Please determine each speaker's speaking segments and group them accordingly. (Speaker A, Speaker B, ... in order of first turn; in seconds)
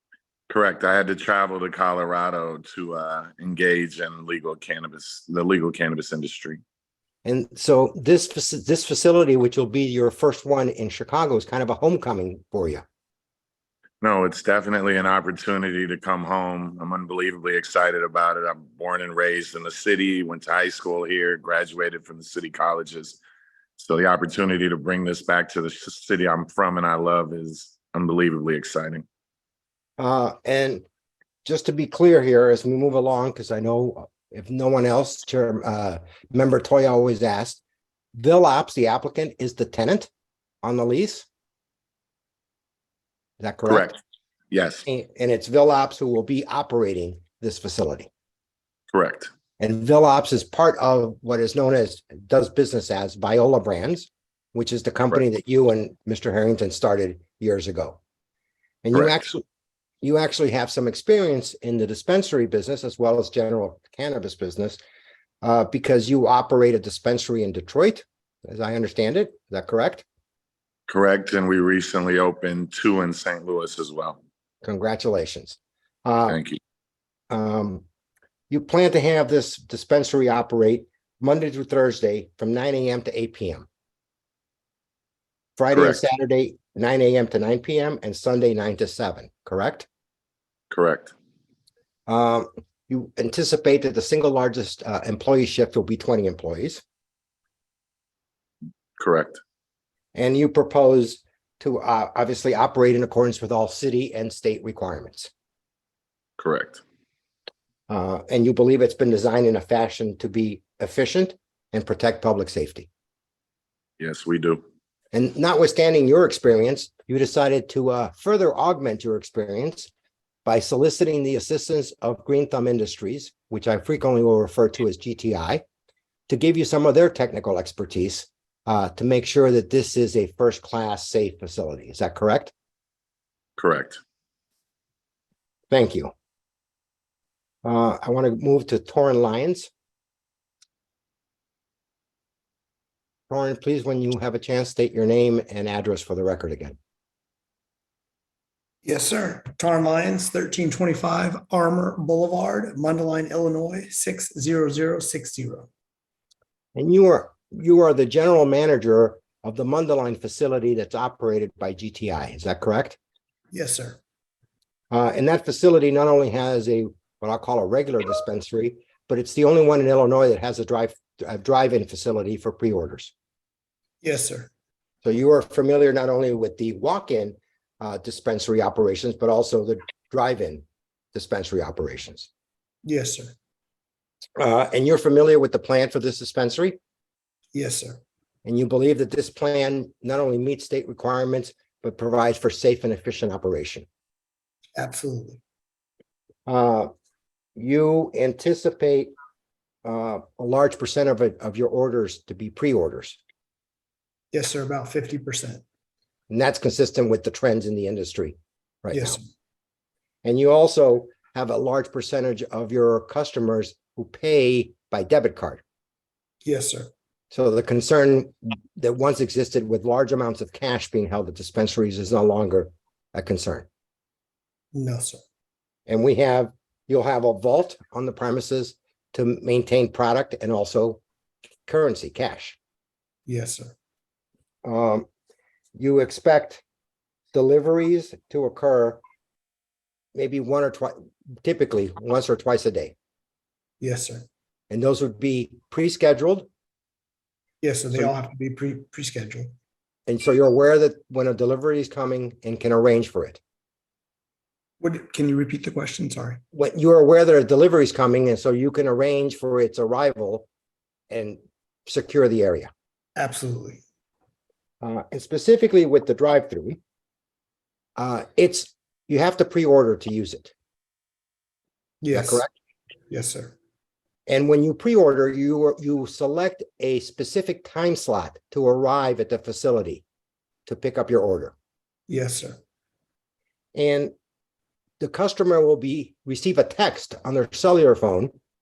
Speaker A: 0.5-6.6, 14.0-23.2, 23.8-29.0, 43.7-44.0, 44.5-44.8, 48.9-49.3, 70.9-74.2, 76.3-76.6, 85.7-86.0, 90.7-91.1, 99.0-99.4, 106.4-106.8, 114.0-114.6, 133.6-134.0
Speaker B: 7.2-12.8, 30.0-30.8, 31.4-37.6, 38.2-40.1, 40.6-41.3, 43.4-43.9, 44.9-48.1, 49.6-58.0, 58.8-59.4, 60.0-64.8, 65.4-70.0, 74.6-76.4, 77.3-77.8, 78.5-83.7, 85.6-89.9, 92.1-96.8, 100.2-105.3, 107.9-112.9, 115.1-119.9, 120.5-125.6, 126.3-132.5, 135.7-136.1, 137.6-139.7, 143.3-146.8, 156.8-163.0, 164.9-173.1, 175.0-182.3, 184.4-186.8, 188.4-193.8, 196.5-196.9, 197.6-199.1, 199.8-203.2, 206.3-209.2, 210.2-215.6, 217.3-223.7, 225.9-231.0, 231.7-232.6, 234.6-235.1, 235.8-236.6, 237.3-239.0, 240.1-242.9, 244.7-246.5, 250.1-253.4, 256.5-260.5, 261.1-262.7, 264.8-266.8, 268.0-270.5, 272.1-272.5, 274.3-280.0, 280.6-281.6, 283.8-284.1, 285.0-288.3
Speaker C: 148.8-155.7, 163.5-164.0, 174.0-174.5, 182.8-183.3, 187.5-188.0, 194.8-195.4, 204.3-205.6, 208.9-209.2, 216.4-216.9, 224.7-225.2, 233.3-233.7, 243.8-244.2, 247.6-249.5, 254.8-256.4, 263.2-263.8, 272.0-272.4, 273.1-273.6, 282.1-282.6